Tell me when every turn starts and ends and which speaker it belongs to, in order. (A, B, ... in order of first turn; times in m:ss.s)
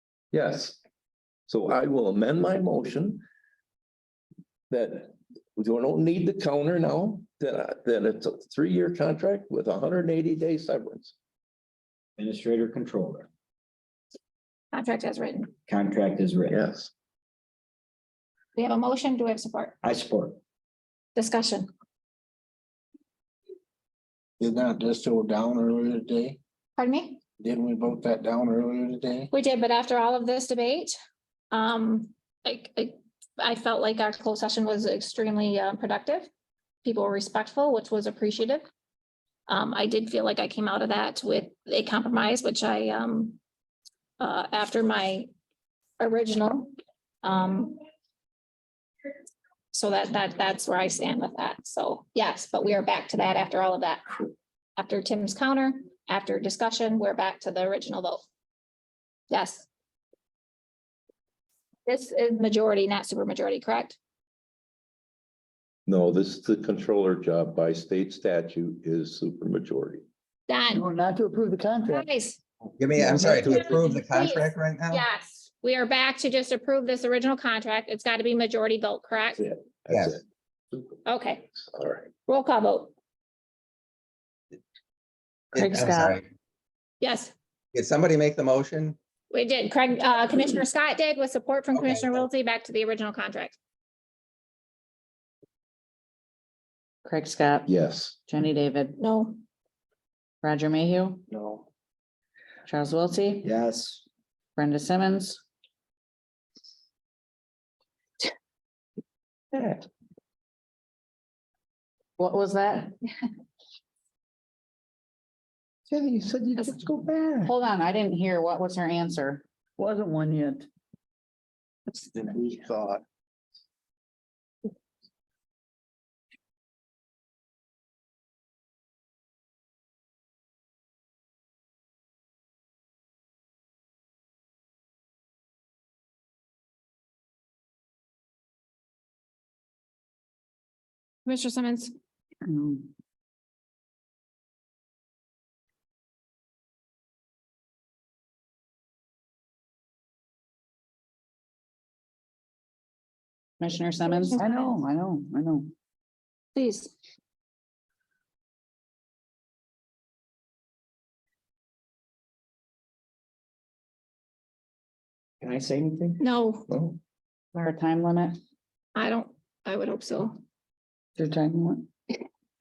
0:00.3-0:00.8 A
0:01.5-0:03.2 A
0:04.7-0:11.1 A
0:12.2-0:13.3 B
0:14.7-0:15.5 C
0:15.7-0:16.6 B
0:16.5-0:16.9 A
0:18.6-0:19.8 C
0:19.8-0:20.4 B
0:21.2-0:21.7 C
0:24.4-0:26.4 D
0:26.8-0:27.2 C
0:27.4-0:29.3 D
0:29.3-0:30.9 C
0:31.5-0:36.3 C
0:36.8-0:38.6 C
0:39.5-0:43.4 C
0:44.2-0:45.3 C
0:46.0-0:46.7 C
0:47.2-0:47.8 C
0:49.7-0:58.2 C
0:59.3-0:59.7 C
1:01.8-1:04.0 C
1:05.9-1:10.0 A
1:10.5-1:10.8 C
1:10.7-1:12.0 E
1:11.9-1:12.4 C
1:12.8-1:15.0 F
1:13.0-1:13.8 A
1:13.4-1:19.4 C
1:19.4-1:21.0 A
1:19.9-1:20.2 F
1:21.0-1:21.4 C
1:21.5-1:22.1 A
1:22.3-1:22.9 C
1:25.5-1:26.2 F
1:25.5-1:26.2 E
1:27.0-1:27.3 C
1:27.7-1:29.0 F
1:29.3-1:33.6 C
1:31.7-1:32.2 F
1:37.0-1:37.7 E
1:37.7-1:38.2 A
1:38.2-1:39.0 E
1:39.0-1:39.4 C
1:40.4-1:41.2 E
1:41.3-1:41.7 B
1:42.6-1:43.5 E
1:43.4-1:44.0 B
1:44.6-1:45.4 E
1:52.2-1:52.9 E
1:56.4-1:56.7 A
1:57.4-2:00.6 E
2:21.2-2:21.9 C
2:22.4-2:22.9 E
2:33.6-2:35.7 E
2:34.0-2:34.7 C
2:36.5-2:36.9 C
2:45.4-2:47.0 B
2:46.2-2:46.7 C
2:47.5-2:48.4 E
2:48.9-2:50.4 C
2:51.2-2:51.9 E